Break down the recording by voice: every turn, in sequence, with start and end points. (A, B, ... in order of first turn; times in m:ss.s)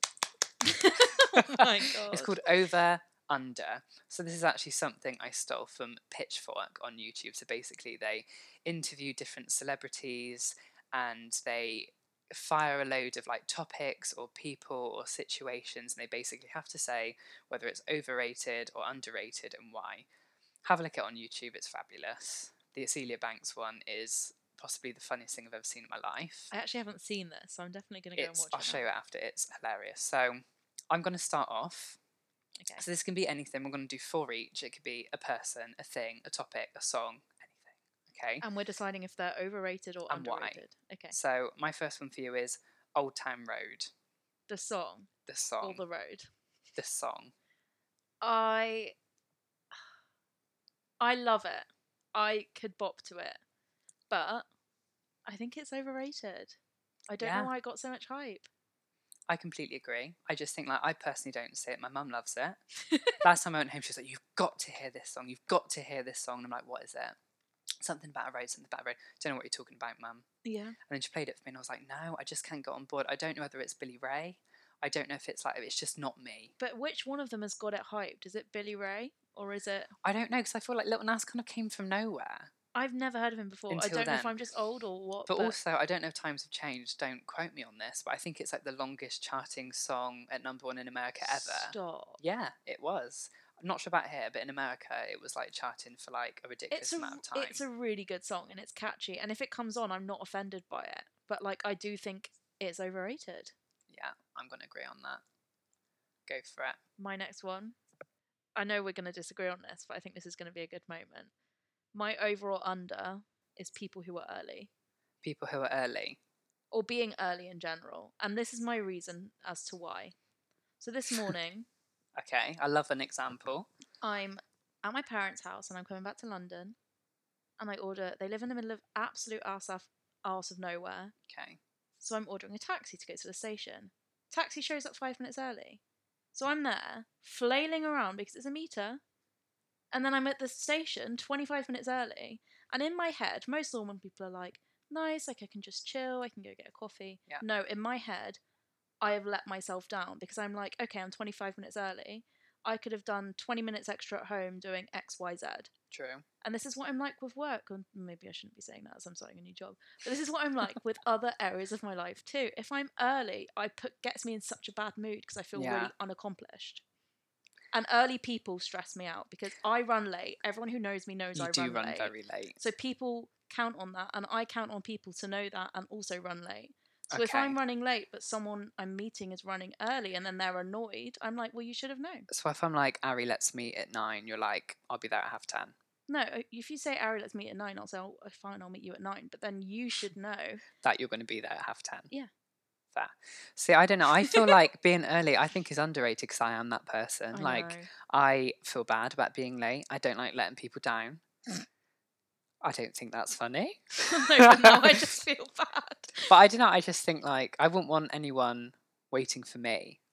0:00.6-0:02.4 A
0:01.1-0:20.1 B
0:20.6-0:26.5 B
0:26.5-0:28.8 A
0:28.1-0:32.0 B
0:32.6-0:32.8 A
0:32.8-0:38.4 B
0:38.4-0:41.2 A
0:40.1-0:40.6 B
0:41.1-0:43.9 B
0:44.5-0:45.1 A
0:45.3-0:45.8 B
0:45.6-0:46.3 A
0:46.8-0:47.3 B
0:48.2-0:48.9 A
0:51.0-0:53.4 A
0:54.1-0:54.4 A
0:55.2-0:56.6 A
0:57.1-0:58.5 A
0:57.2-0:57.5 B
0:59.3-1:02.6 B
1:02.8-1:03.2 A
1:03.2-1:07.2 B
1:07.8-1:10.2 B
1:10.4-1:10.8 A
1:10.9-1:16.5 B
1:16.6-1:19.9 A
1:20.0-1:22.5 B
1:22.7-1:25.6 A
1:23.7-1:24.4 B
1:25.3-1:37.6 B
1:31.2-1:32.2 A
1:36.7-1:43.5 A
1:43.9-1:45.2 B
1:46.3-1:46.8 B
1:47.0-1:47.8 A
1:48.6-1:51.3 A
1:51.9-1:54.7 A
1:55.2-1:56.2 B
1:56.7-2:00.1 A
2:00.8-2:01.7 A
2:02.2-2:03.7 B
2:04.0-2:06.8 A
2:07.6-2:11.1 A
2:11.3-2:11.6 B
2:12.0-2:15.8 A
2:16.3-2:19.0 A
2:19.9-2:28.4 A
2:29.0-2:35.7 A
2:35.9-2:36.2 B
2:36.4-2:46.8 A
2:45.5-2:45.9 B
2:47.7-3:02.3 A
2:51.4-2:52.6 B
2:57.1-2:57.6 B
3:02.3-3:05.7 B
3:06.1-3:10.6 A
3:10.8-3:12.1 B
3:12.9-3:21.2 B
3:14.2-3:14.5 A
3:17.3-3:17.9 A
3:22.6-3:25.0 B
3:24.0-3:26.4 A
3:26.3-3:30.0 B